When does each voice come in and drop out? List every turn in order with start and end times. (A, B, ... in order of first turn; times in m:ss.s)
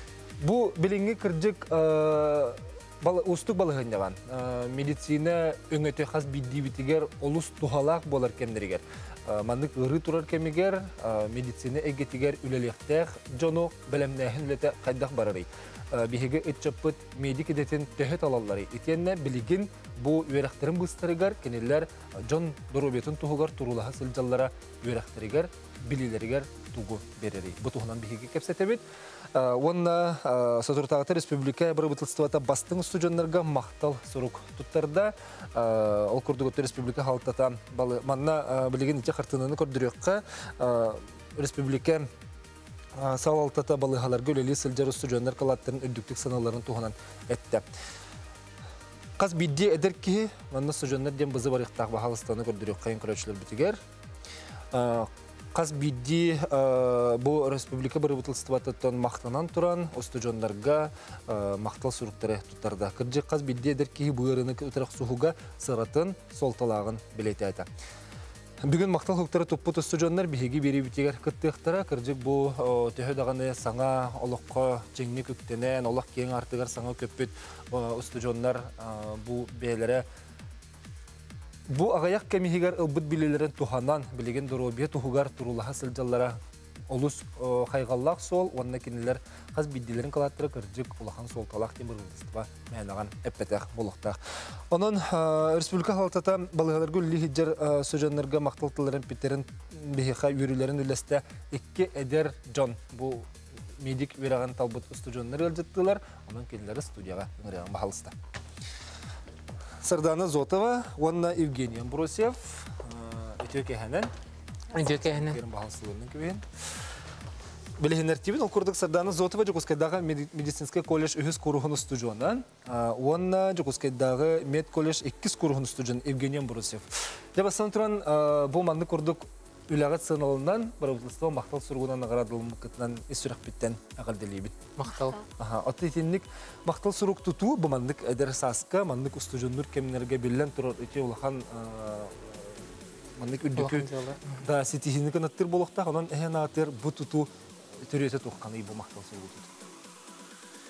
0:00.4-0:28.8 A
0:29.3-0:42.1 A
0:43.0-0:47.7 A
0:49.2-0:53.8 A
0:54.7-1:07.7 A
1:08.6-1:20.0 A
1:21.7-1:26.4 A
1:26.9-1:34.2 A
1:34.7-1:48.2 A
1:49.8-1:54.1 A
1:54.7-1:55.4 B
1:54.8-1:56.5 A
1:57.8-2:14.6 A
2:14.8-2:15.2 B
2:15.4-2:23.9 A
2:23.6-2:24.4 B
2:24.4-2:29.5 A